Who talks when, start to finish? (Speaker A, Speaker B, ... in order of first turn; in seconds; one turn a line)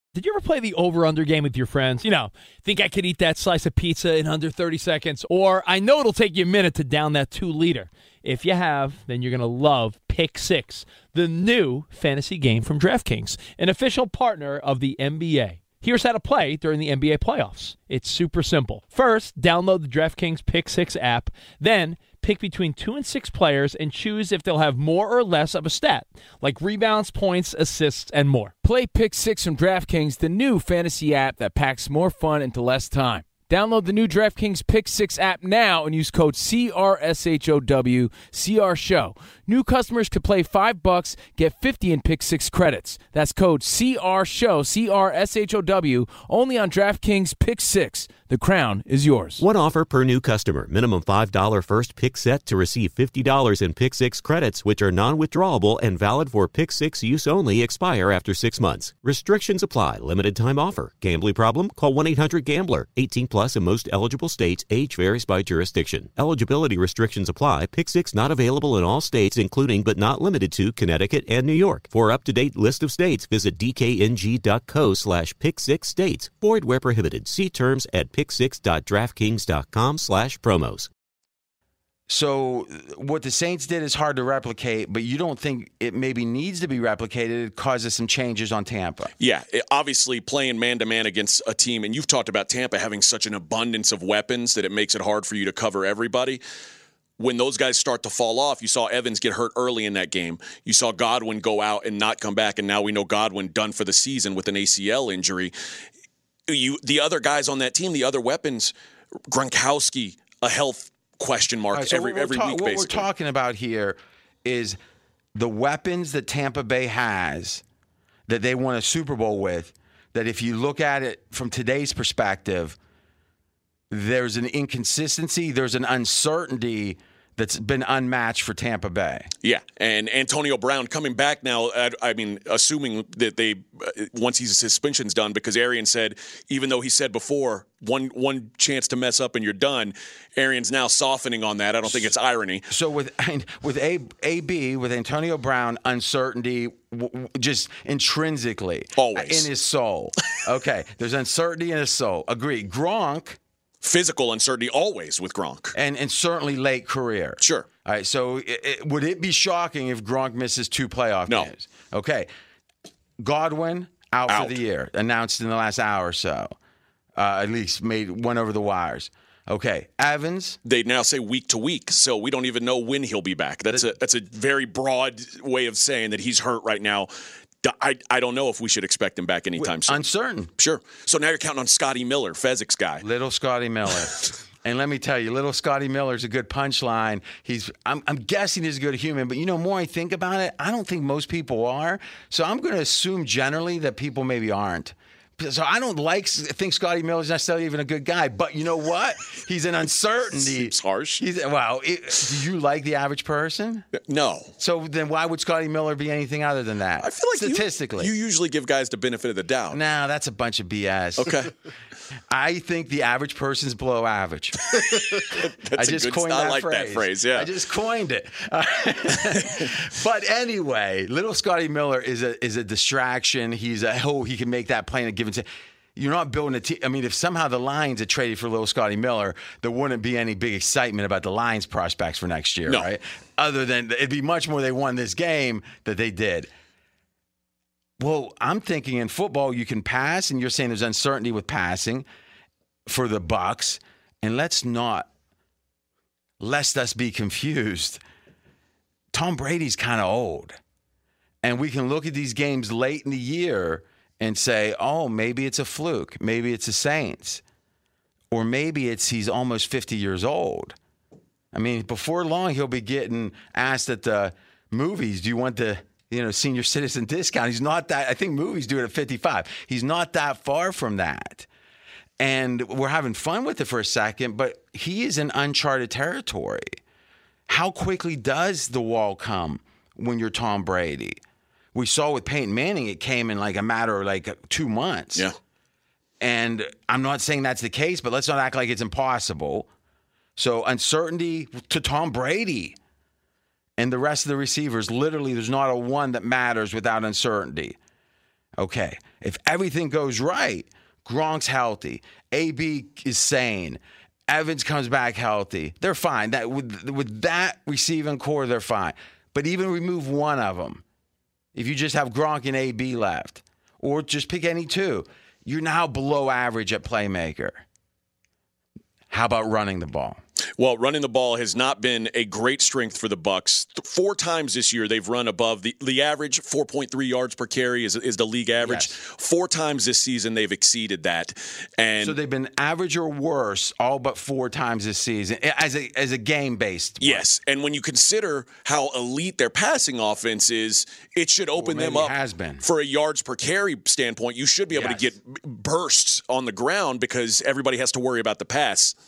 Speaker A: 0.1-28.5
Speaker B: 28.6-49.4
Speaker C: 49.4-80.9
Speaker D: 82.1-89.1
Speaker E: 89.2-96.4
Speaker E: 97.2-105.5
Speaker E: 106.5-108.7
Speaker E: 109.3-113.0
Speaker D: 111.7-114.8
Speaker D: 115.3-117.6
Speaker D: 118.3-122.8
Speaker D: 123.9-129.3
Speaker E: 129.4-142.7
Speaker D: 142.7-153.4
Speaker E: 148.9-149.5
Speaker E: 153.8-155.7
Speaker D: 155.7-162.3
Speaker E: 157.4-157.7
Speaker D: 163.2-166.5
Speaker E: 164.3-164.6
Speaker D: 167.2-170.6
Speaker E: 170.6-177.1
Speaker E: 177.6-180.0
Speaker D: 179.6-180.5
Speaker E: 180.6-183.0
Speaker D: 183.0-203.9
Speaker E: 200.3-201.2
Speaker E: 204.0-204.5
Speaker D: 204.6-208.1
Speaker E: 207.0-209.8
Speaker D: 209.7-211.5
Speaker E: 211.2-211.5
Speaker D: 212.3-225.4
Speaker E: 214.7-217.5
Speaker D: 225.9-236.5
Speaker D: 238.0-242.0
Speaker D: 242.9-245.1
Speaker D: 246.4-248.0
Speaker D: 249.1-250.6
Speaker D: 251.4-257.4
Speaker D: 258.3-260.8
Speaker D: 261.5-271.4
Speaker D: 272.2-276.8
Speaker D: 277.5-281.2
Speaker D: 281.7-285.3
Speaker D: 286.2-289.7
Speaker D: 290.4-292.8
Speaker D: 293.8-297.8
Speaker D: 298.6-310.8
Speaker D: 311.5-317.6
Speaker D: 319.1-320.2
Speaker E: 320.6-332.1
Speaker D: 328.6-328.9
Speaker D: 332.0-337.2
Speaker E: 337.0-348.9
Speaker D: 341.6-342.6
Speaker D: 344.7-345.0